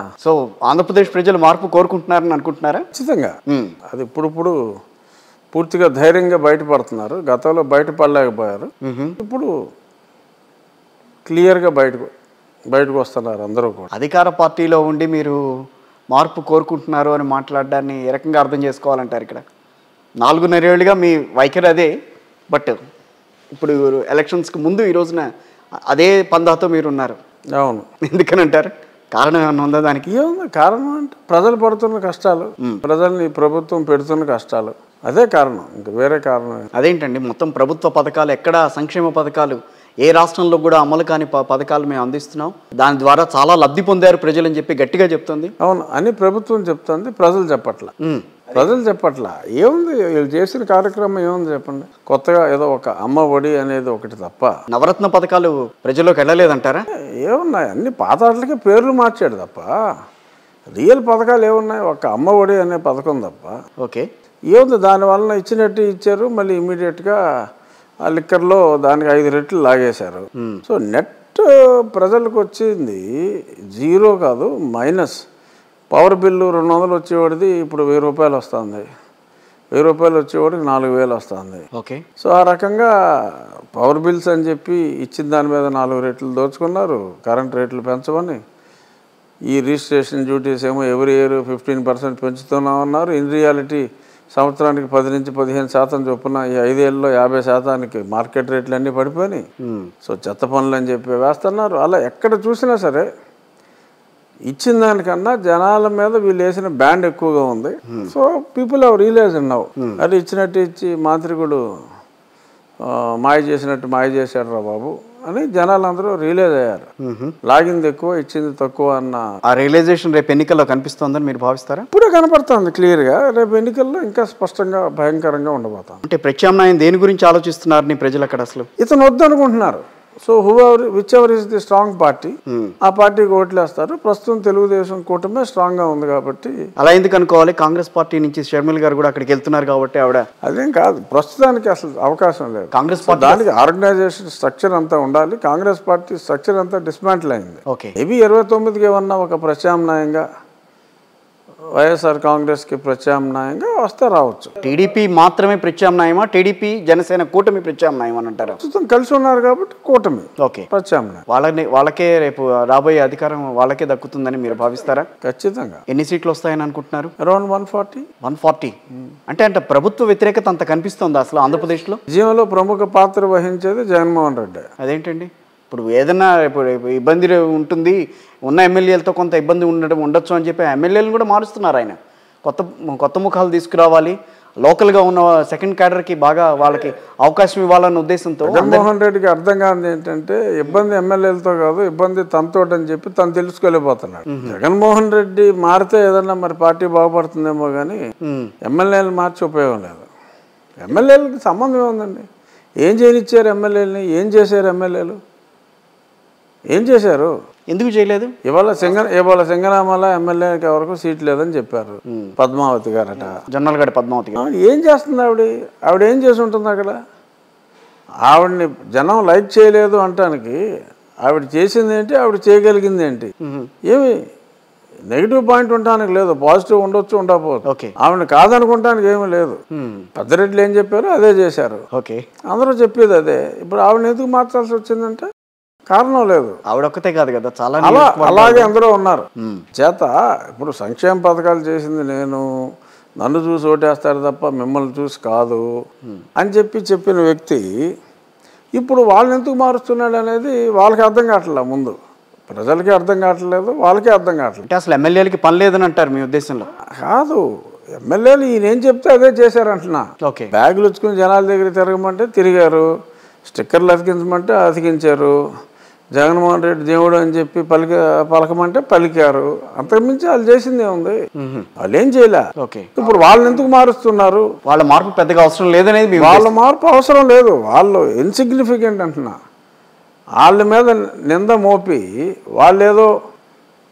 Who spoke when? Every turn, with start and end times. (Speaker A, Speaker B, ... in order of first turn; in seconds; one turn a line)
Speaker A: 0.2-2.9
Speaker B: 2.9-3.4
Speaker A: 3.5-3.8
Speaker B: 3.9-4.6
Speaker B: 5.5-9.5
Speaker A: 8.8-9.2
Speaker B: 11.3-12.1
Speaker B: 12.7-13.9
Speaker A: 13.9-15.4
Speaker A: 16.1-19.4
Speaker A: 20.2-21.9
Speaker A: 22.5-22.8
Speaker A: 23.5-25.3
Speaker A: 25.9-27.2
Speaker B: 27.6-27.9
Speaker A: 28.0-30.1
Speaker B: 30.1-36.7
Speaker A: 36.8-45.5
Speaker B: 45.6-48.0
Speaker A: 48.0-48.6
Speaker B: 48.5-54.5
Speaker A: 54.7-56.9
Speaker B: 57.2-59.7
Speaker B: 60.7-63.6
Speaker A: 63.8-64.1
Speaker B: 64.5-67.2
Speaker B: 68.0-75.2
Speaker B: 75.9-78.9
Speaker B: 79.7-81.7
Speaker A: 81.7-82.0
Speaker B: 82.2-88.4
Speaker B: 89.5-99.4
Speaker A: 99.6-99.9
Speaker B: 100.0-103.1
Speaker B: 104.5-111.6
Speaker B: 112.8-116.9
Speaker A: 117.0-117.3
Speaker B: 117.5-119.3
Speaker A: 119.5-121.9
Speaker B: 121.9-126.0
Speaker A: 126.1-128.7
Speaker B: 128.8-136.7
Speaker A: 132.5-132.8
Speaker A: 136.8-140.2
Speaker B: 140.4-150.2
Speaker A: 142.7-143.5
Speaker A: 147.7-147.9
Speaker B: 151.8-154.5
Speaker A: 154.6-158.6
Speaker B: 158.6-161.2
Speaker A: 160.4-160.7
Speaker A: 161.3-165.1
Speaker B: 165.2-165.8
Speaker A: 165.9-167.1
Speaker B: 167.2-168.1
Speaker A: 168.2-168.8
Speaker A: 169.3-172.0
Speaker B: 172.1-174.7
Speaker A: 174.8-188.9
Speaker B: 188.4-198.0
Speaker A: 194.3-194.6
Speaker A: 198.2-198.5
Speaker B: 198.6-200.1
Speaker B: 200.8-202.3
Speaker B: 202.8-205.2
Speaker B: 206.7-207.3
Speaker A: 207.7-208.3
Speaker B: 208.4-213.4
Speaker A: 213.2-214.4
Speaker B: 214.4-217.0
Speaker B: 218.3-220.6
Speaker B: 221.2-223.3
Speaker A: 223.4-223.7
Speaker B: 223.8-224.2
Speaker B: 225.1-229.6
Speaker A: 227.7-227.9
Speaker A: 229.7-230.1
Speaker B: 230.2-231.8
Speaker A: 231.9-232.2
Speaker B: 232.5-235.3
Speaker B: 235.9-236.6
Speaker A: 236.7-238.7
Speaker B: 237.8-242.6
Speaker A: 239.4-239.7
Speaker B: 243.2-245.7
Speaker B: 246.4-247.8
Speaker B: 248.8-252.0
Speaker B: 252.5-254.6
Speaker A: 254.7-256.7
Speaker B: 257.0-257.4
Speaker B: 258.0-262.9
Speaker A: 260.2-260.5
Speaker B: 263.4-265.4
Speaker B: 266.1-271.2
Speaker A: 271.4-271.7
Speaker B: 271.8-274.5
Speaker A: 272.6-272.9
Speaker A: 274.7-276.5
Speaker B: 276.2-279.4
Speaker B: 280.4-283.1